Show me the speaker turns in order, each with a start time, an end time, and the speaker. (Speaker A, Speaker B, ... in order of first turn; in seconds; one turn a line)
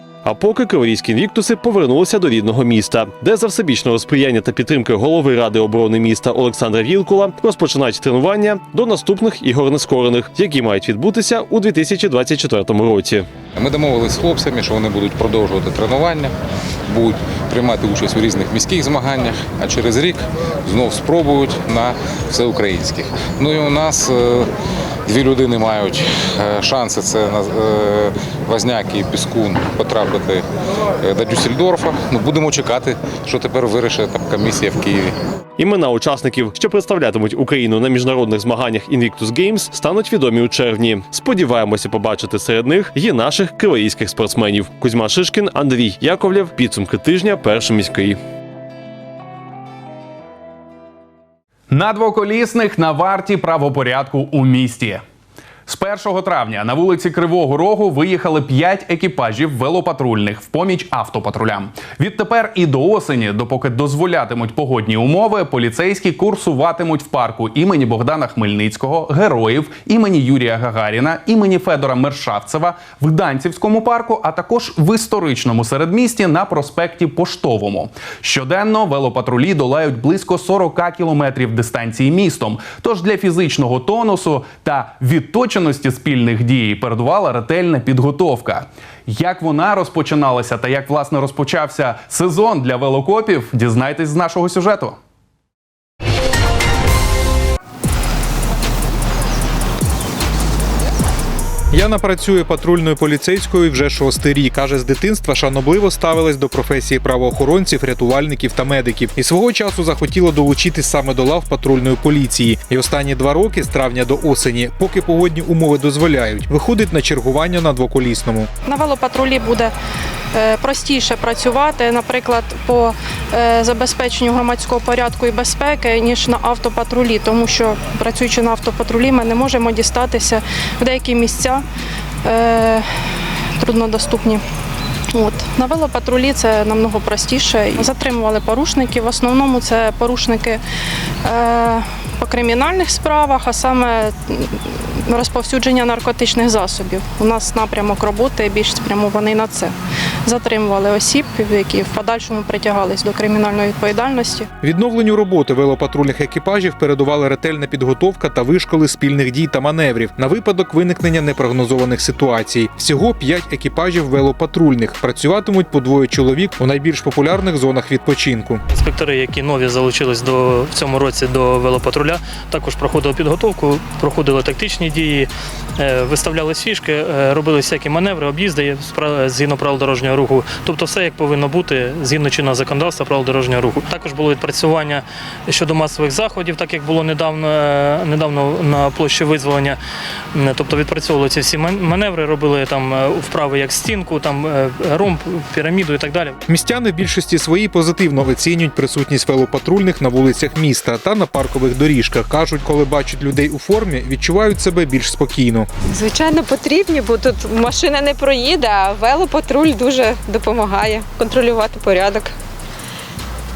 Speaker A: 0.2-13.3
Speaker B: 13.6-16.3
Speaker B: 16.9-24.5
Speaker B: 25.1-30.5
Speaker B: 31.0-35.2
Speaker A: 35.6-48.2
Speaker C: 51.7-55.0
Speaker C: 55.7-95.0
Speaker D: 101.7-118.5
Speaker E: 118.7-119.7
Speaker E: 120.3-131.6
Speaker E: 132.2-132.9
Speaker E: 133.6-134.4
Speaker E: 135.1-140.6
Speaker E: 141.2-149.7
Speaker E: 150.2-154.5
Speaker D: 154.6-168.6
Speaker F: 168.7-189.8
Speaker F: 190.3-196.4
Speaker D: 196.5-205.7
Speaker G: 205.9-212.3